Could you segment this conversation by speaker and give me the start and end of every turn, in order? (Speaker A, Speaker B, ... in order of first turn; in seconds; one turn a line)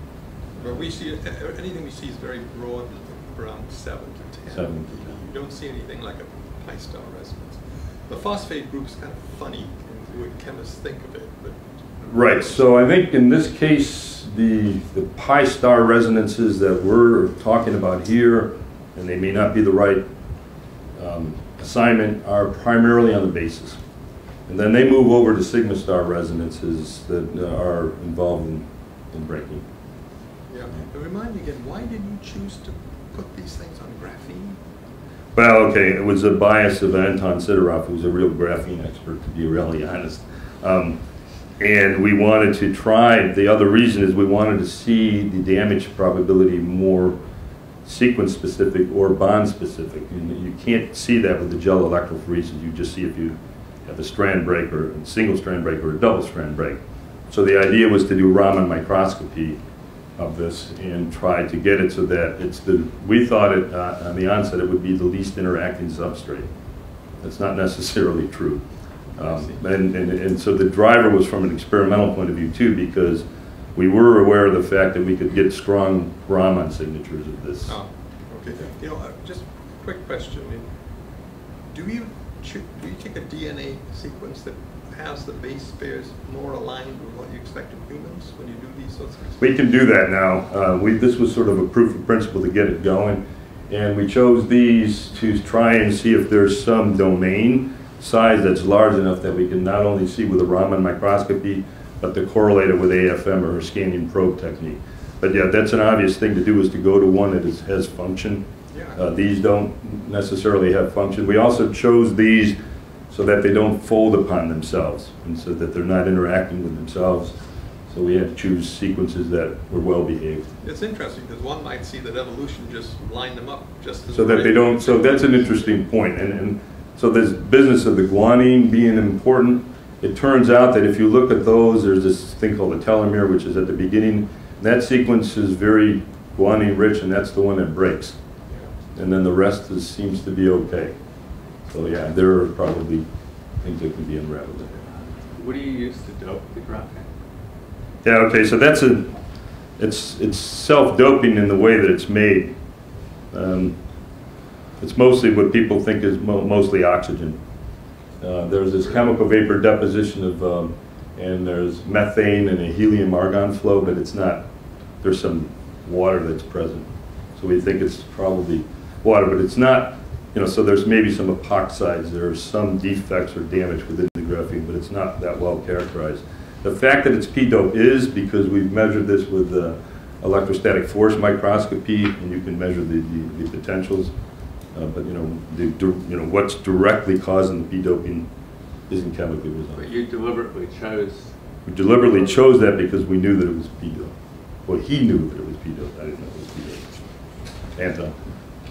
Speaker A: 0.6-12.6
Speaker B: 4.5-5.1
Speaker B: 12.1-20.0
Speaker B: 21.0-23.8
Speaker B: 24.5-29.6
Speaker A: 30.5-34.6
Speaker B: 35.4-41.0
Speaker B: 41.6-47.2
Speaker B: 47.9-56.8
Speaker B: 57.3-59.6
Speaker B: 60.2-66.5
Speaker B: 67.2-68.6
Speaker B: 69.2-73.2
Speaker A: 69.2-69.6
Speaker B: 73.8-77.8
Speaker A: 77.7-80.7
Speaker A: 81.7-89.5
Speaker B: 89.4-108.4
Speaker A: 108.7-109.0
Speaker B: 109.0-112.6
Speaker B: 113.1-117.4
Speaker B: 117.9-120.5
Speaker A: 120.6-125.6
Speaker B: 124.1-138.2
Speaker B: 138.9-140.9
Speaker B: 141.7-143.1
Speaker B: 143.6-144.8
Speaker C: 145.3-147.1
Speaker B: 148.0-149.2
Speaker B: 149.8-152.5
Speaker B: 153.3-153.8
Speaker B: 154.8-157.4
Speaker B: 158.2-164.4
Speaker B: 165.0-184.1
Speaker B: 184.7-188.3
Speaker B: 188.9-189.9
Speaker C: 189.7-191.3
Speaker B: 191.7-194.1
Speaker C: 191.9-192.4
Speaker B: 194.7-196.9
Speaker B: 197.8-198.2